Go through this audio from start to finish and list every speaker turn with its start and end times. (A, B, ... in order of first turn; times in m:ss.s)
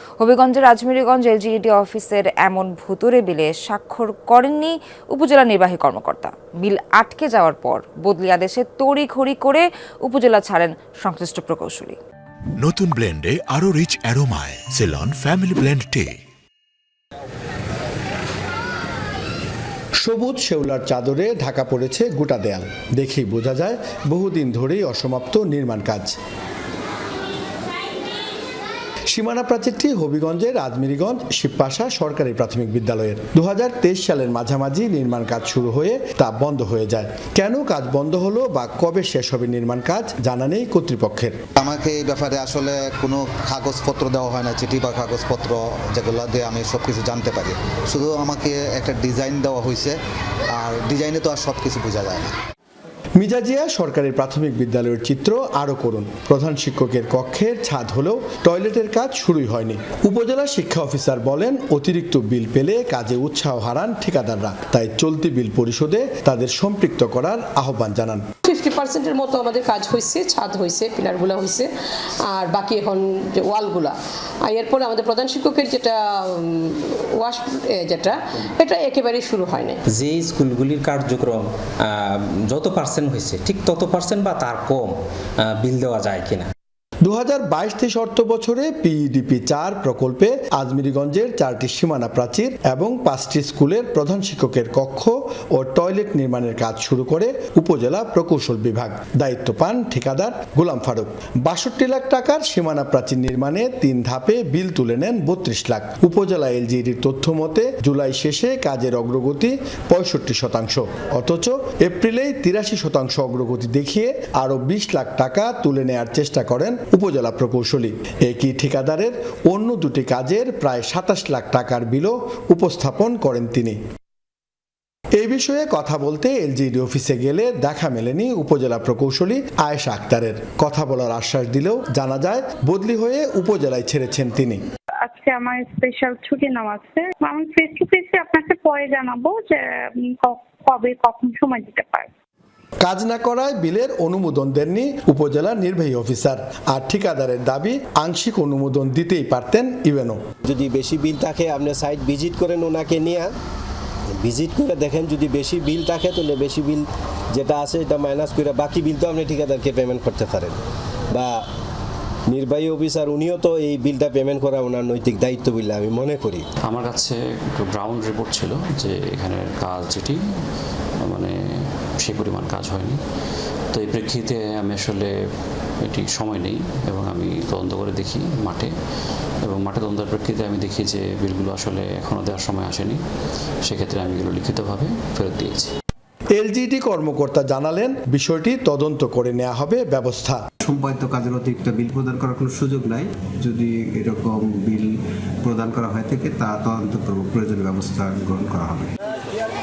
0:00.2-0:12.0 A
0:12.6-0:16.2 B
0:20.0-0:26.2 C
0:29.1-0:41.4 C
0:41.6-0:50.0 D
0:50.5-0:52.3 D
0:53.2-1:08.2 C
1:08.4-1:11.7 E
1:12.3-1:19.8 E
1:19.9-1:26.5 F
1:27.0-2:03.8 C
2:05.1-2:14.6 C
2:15.0-2:22.1 G
2:22.8-2:30.2 C
2:30.4-2:33.3 H
2:34.1-2:40.6 H
2:41.1-2:41.4 H
2:42.3-2:46.4 H
2:46.6-2:50.2 I
2:51.0-2:51.4 I
2:52.0-2:53.0 I
2:53.7-2:55.1 I
2:55.8-2:58.7 I
2:59.4-3:03.0 I
3:03.6-3:05.7 I
3:06.3-3:10.4 C
3:10.6-3:18.9 J